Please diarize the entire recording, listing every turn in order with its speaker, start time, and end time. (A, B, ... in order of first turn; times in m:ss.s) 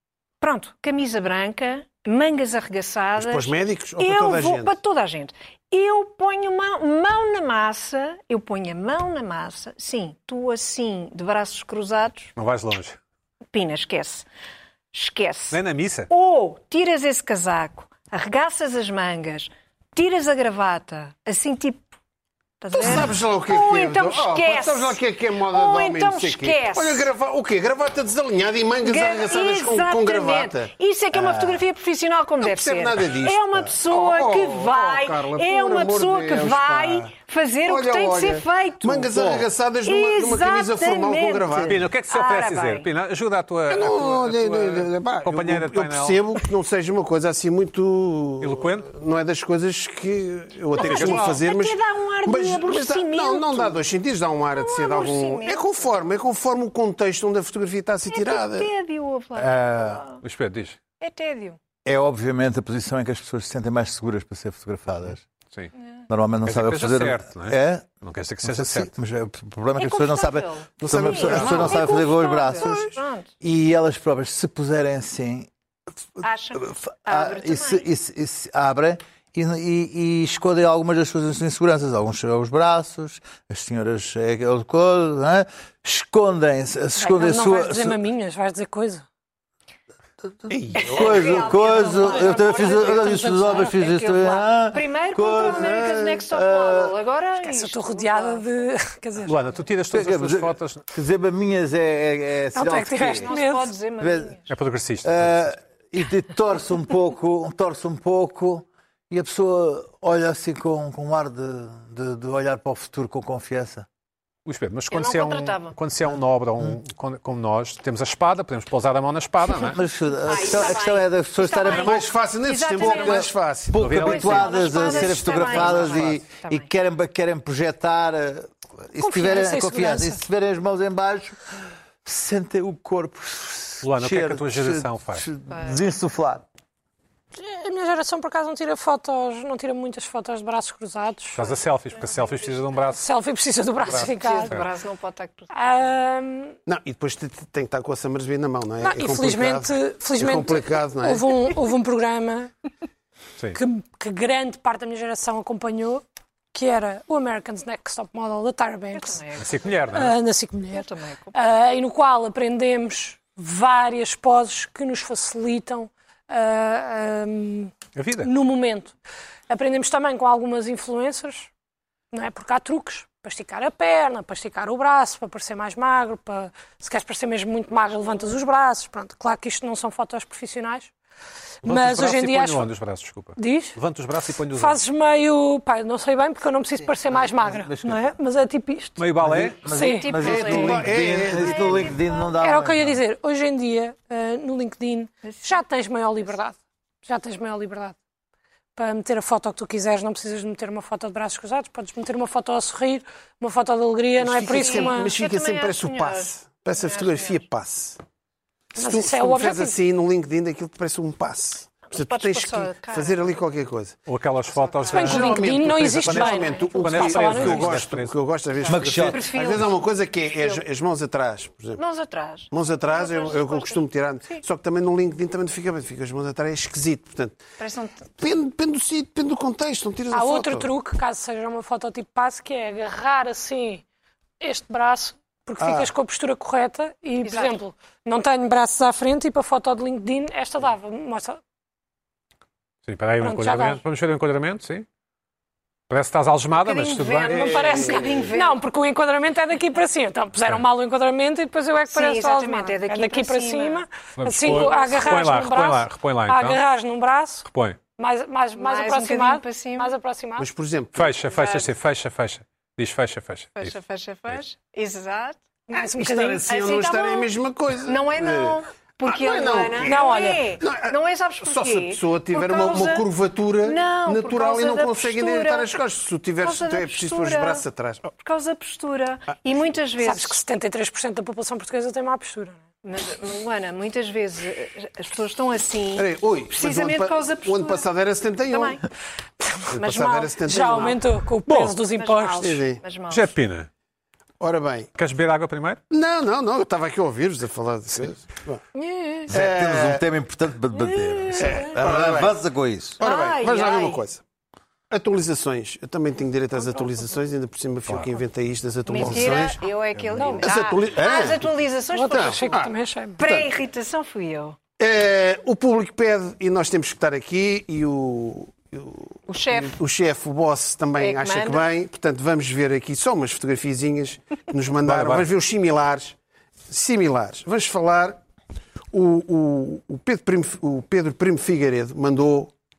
0:00.4-0:12.3 A
0:03.2-0:04.8 B
0:12.4-0:13.0 C
0:13.5-0:14.3 A
0:14.9-0:21.9 A
0:15.5-0:16.1 C
0:22.6-0:27.1 A
0:22.7-0:31.6 B
0:28.8-0:42.9 A
0:32.4-0:37.1 B
0:37.7-0:41.8 B
0:41.7-0:46.2 C
0:43.7-0:58.7 B
0:48.4-0:48.9 C
0:50.8-0:51.4 C
0:50.8-0:53.8 A
0:54.5-0:55.7 A
0:58.1-1:00.2 A
0:59.4-1:00.0 D
1:00.2-1:00.8 C
1:01.0-1:01.6 A
1:01.8-1:05.2 D
1:06.1-1:07.9 D
1:06.4-1:08.9 C
1:08.4-1:15.5 D
1:09.8-1:13.3 A
1:10.8-1:12.0 B
1:12.6-1:12.8 B
1:16.2-1:17.9 A
1:16.6-1:28.0 D
1:27.0-1:29.0 E
1:30.5-1:31.7 B
1:30.8-1:36.9 D
1:30.8-1:38.4 A
1:32.0-1:33.8 E
1:37.4-1:39.4 E
1:39.3-1:40.8 C
1:39.9-1:43.3 D
1:42.5-1:43.7 E
1:43.1-1:44.5 A
1:44.0-1:44.4 D
1:44.5-1:45.6 C
1:45.0-1:53.9 D
1:54.5-1:59.8 C
1:54.9-1:55.8 A
1:59.7-2:02.1 D
2:00.2-2:03.3 A
2:01.7-2:04.0 B
2:02.8-2:11.4 D
2:03.8-2:06.1 C
2:04.0-2:06.7 A
2:09.0-2:10.2 E
2:12.0-2:16.4 D
2:13.8-2:15.3 C
2:15.5-2:15.8 A
2:17.3-2:21.4 E
2:21.3-2:23.0 C
2:22.0-2:22.5 A
2:23.0-2:24.5 E
2:23.9-2:24.7 C
2:23.9-2:25.5 A
2:25.5-2:26.6 E
2:26.7-2:31.3 B
2:28.8-2:32.5 E
2:33.6-2:39.2 E
2:38.9-2:39.7 A
2:39.4-2:40.1 C
2:39.9-2:49.0 E
2:40.7-2:41.4 A
2:48.0-2:48.3 C
2:49.5-2:51.5 E
2:52.1-3:00.9 E
3:01.6-3:02.7 E
3:01.6-3:04.8 C
3:03.4-3:03.8 E
3:04.5-3:09.0 E
3:07.1-3:08.1 D
3:09.0-3:09.6 C
3:09.2-3:13.0 D
3:09.7-3:10.1 E
3:09.7-3:12.3 A
3:10.2-3:11.9 B
3:12.4-3:18.0 E
3:15.2-3:15.6 A
3:18.8-3:25.1 E
3:24.2-3:28.0 B
3:24.5-3:27.4 A
3:28.8-3:34.0 B
3:28.8-3:29.8 E
3:31.9-3:33.2 A
3:34.1-3:35.4 C
3:34.8-3:35.4 A
3:34.9-3:41.8 B
3:34.9-3:37.8 E
3:36.4-3:37.2 A
3:36.8-3:38.2 C
3:38.6-3:40.6 A
3:38.7-3:39.3 D
3:41.8-3:44.4 A
3:42.5-3:47.4 B
3:47.6-3:48.1 A
3:48.2-3:50.7 B
3:50.1-3:53.8 E
3:54.4-4:01.4 E
3:55.6-3:55.9 B
3:57.2-3:57.6 A
4:02.9-4:04.9 C
4:03.2-4:03.8 E
4:05.9-4:07.7 C
4:06.6-4:08.6 A
4:07.3-4:20.5 E
4:07.4-4:08.3 B
4:11.9-4:13.8 A
4:14.2-4:16.6 C
4:17.5-4:17.8 C
4:18.6-4:19.9 A
4:20.4-4:21.3 B
4:21.0-4:23.8 C
4:21.3-4:21.7 A
4:23.6-4:25.4 A
4:25.7-4:26.4 E
4:25.7-4:38.1 B
4:26.5-4:27.3 A
4:27.8-4:33.1 A
4:29.8-4:30.6 E
4:33.6-4:35.7 A
4:36.4-4:37.6 A
4:38.2-4:40.4 A
4:40.0-4:42.6 E
4:42.8-4:47.9 A
4:46.0-4:48.8 B
4:48.5-4:48.8 A
4:49.4-4:51.0 A
4:49.7-4:51.0 B
4:50.4-4:52.6 E
4:51.5-4:51.8 C
4:51.9-4:53.3 A
4:52.4-4:52.8 B
4:53.1-4:53.7 C
4:54.4-4:54.9 B
4:55.0-4:55.8 C
4:55.9-4:58.6 B
4:58.8-4:59.3 A
4:59.3-5:03.0 D
4:59.3-5:00.0 B
5:00.7-5:01.7 A
5:01.4-5:02.4 B
5:03.0-5:04.2 B
5:03.0-5:04.0 A
5:04.9-5:09.6 B
5:08.9-5:12.5 A
5:10.2-5:10.5 E
5:10.4-5:11.5 B
5:11.9-5:13.2 E
5:12.1-5:13.5 B
5:13.2-5:14.6 A
5:14.8-5:26.2 B
5:19.3-5:19.8 A
5:21.0-5:21.7 A
5:24.8-5:25.3 C
5:26.7-5:28.2 B
5:28.9-5:32.5 B